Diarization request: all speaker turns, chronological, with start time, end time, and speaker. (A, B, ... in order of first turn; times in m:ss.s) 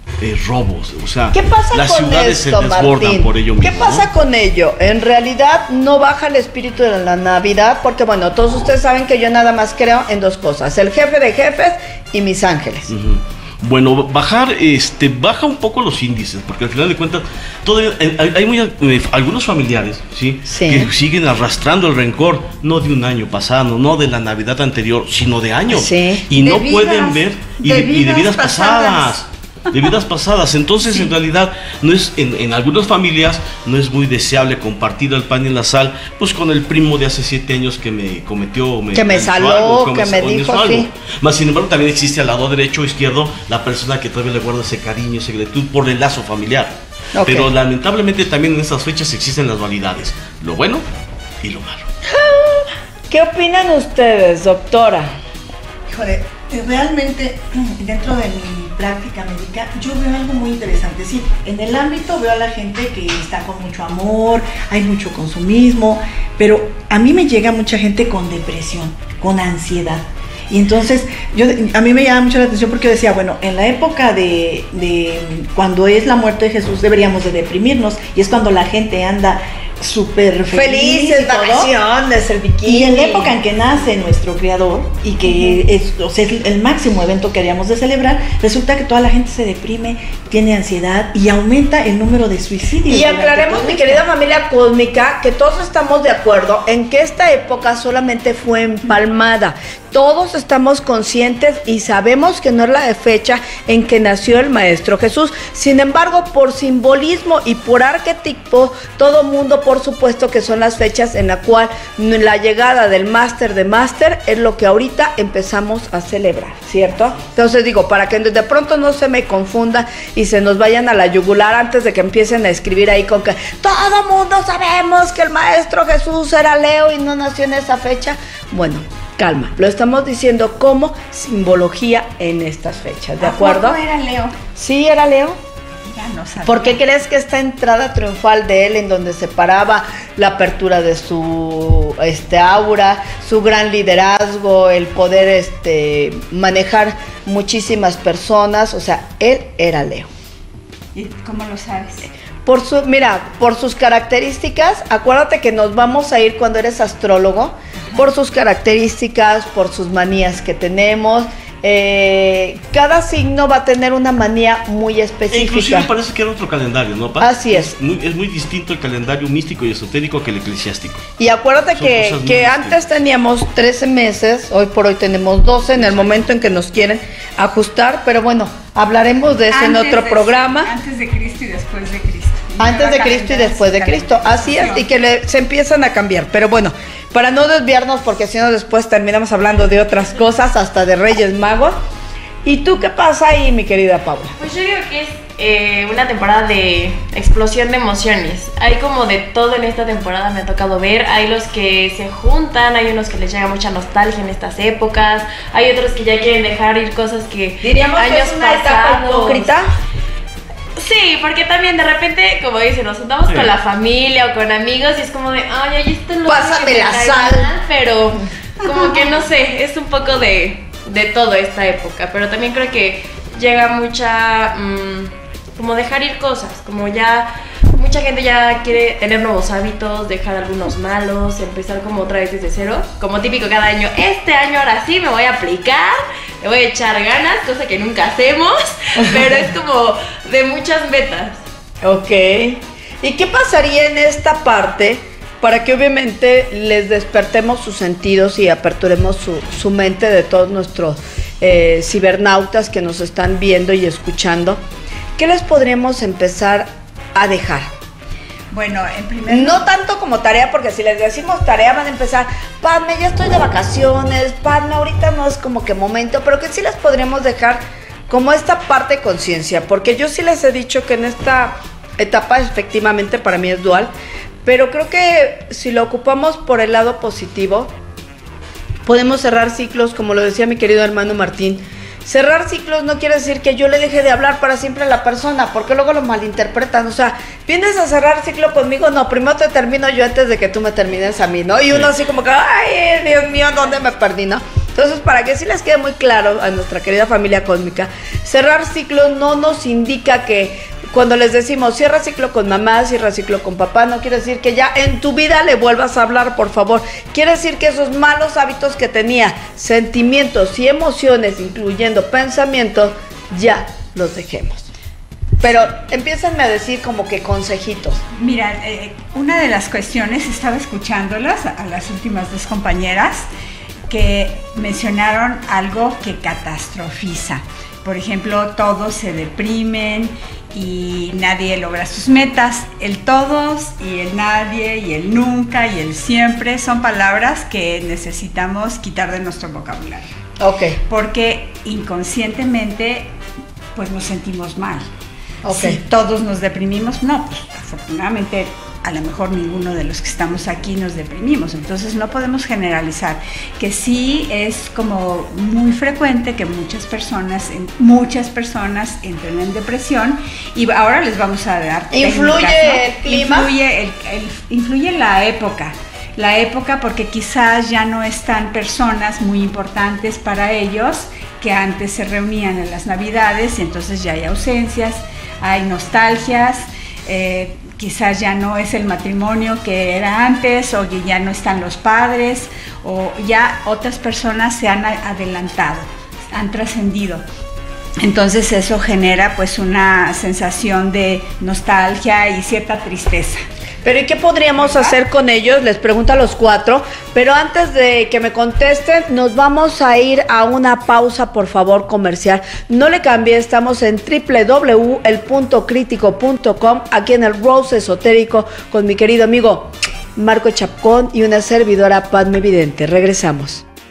0:00.2-0:04.1 A
0:01.3-0:12.9 B
0:12.9-0:50.8 A
0:20.5-0:20.9 B
0:25.7-0:26.3 B
0:26.4-0:29.1 C
0:39.0-0:40.9 B
0:47.2-0:47.5 B
0:51.4-0:51.9 A
0:52.1-0:55.1 B
0:55.9-1:21.7 D
1:20.5-1:23.3 B
1:22.6-1:34.1 D
1:25.2-1:25.6 B
1:32.9-2:13.8 B
2:13.2-2:14.4 C
2:14.6-2:15.4 B
2:15.8-2:16.8 C
2:16.4-2:30.1 B
2:30.9-2:32.1 C
2:32.4-2:45.9 B
2:45.3-2:51.0 A
2:47.2-2:47.8 B
2:51.2-3:00.7 B
2:51.8-2:53.0 A
2:55.8-2:56.2 A
2:59.5-3:04.9 C
3:02.6-3:11.8 B
3:12.4-3:14.3 B
3:14.4-3:29.5 E
3:27.6-3:29.7 B
3:30.8-4:01.4 E
3:33.2-3:33.5 A
3:36.3-3:37.5 B
4:01.8-4:14.6 B
4:15.2-4:17.7 B
4:18.5-4:19.7 C
4:19.3-4:33.9 B
4:34.4-4:37.7 B
4:38.9-5:14.7 B
5:15.4-5:18.0 B
5:18.2-5:23.3 C
5:23.9-5:40.1 C
5:40.4-5:40.8 B
5:40.9-5:43.1 C
5:43.8-5:44.9 C
5:45.4-5:45.8 B
5:45.5-6:27.2 C
6:01.9-6:03.5 B
6:28.0-6:33.4 C
6:33.8-6:53.6 B
6:34.6-6:35.0 C